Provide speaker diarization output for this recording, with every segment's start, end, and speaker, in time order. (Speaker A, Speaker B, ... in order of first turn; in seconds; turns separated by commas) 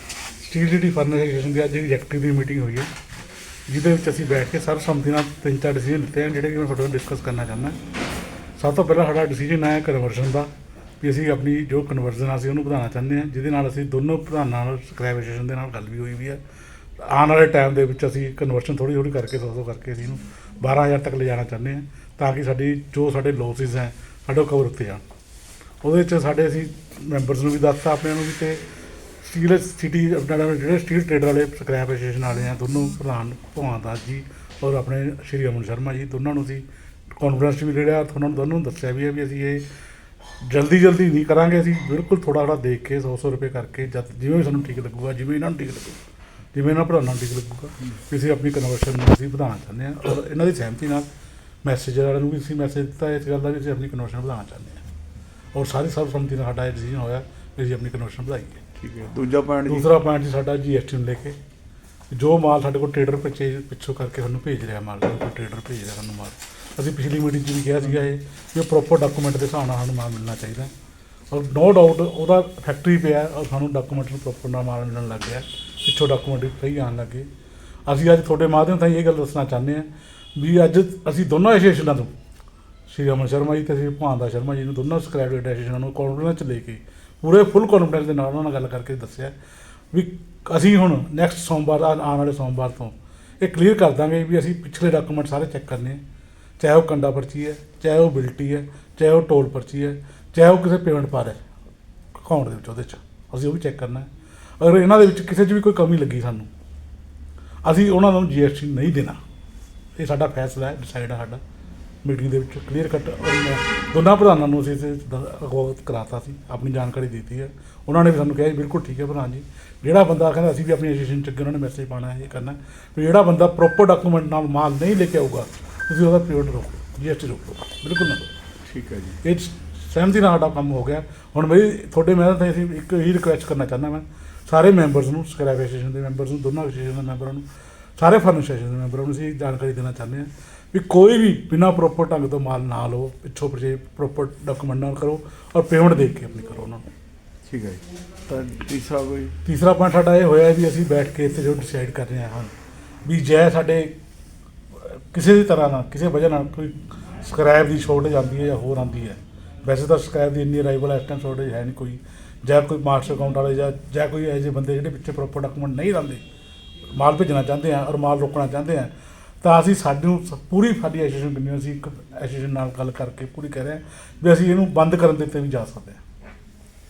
Speaker A: 0.4-2.9, Speaker A: 3.7-7.8, Speaker A: 8.6-16.4, Speaker A: 17.1-25.1, Speaker A: 25.8-28.6, Speaker A: 29.2-36.6, Speaker A: 37.2-39.6, Speaker A: 40.5-46.0, Speaker A: 46.5-51.1, Speaker A: 51.6-54.8, Speaker A: 55.5-58.6, Speaker B: 58.8-59.9, Speaker A: 59.7-61.4, Speaker A: 62.1-70.7, Speaker A: 71.3-77.3, Speaker A: 77.9-82.1, Speaker A: 82.9-89.4, Speaker A: 89.9-96.0, Speaker A: 96.6-101.4, Speaker A: 102.2-104.1, Speaker A: 104.6-106.5, Speaker A: 107.6-109.2, Speaker A: 110.0-111.4, Speaker A: 112.0-128.3, Speaker B: 128.7-129.2, Speaker A: 129.2-137.4, Speaker A: 138.0-146.9, Speaker B: 147.5-149.4, Speaker A: 149.4-152.5, Speaker A: 153.1-153.9, Speaker A: 154.8-166.2, Speaker A: 167.0-168.9, Speaker A: 169.4-176.0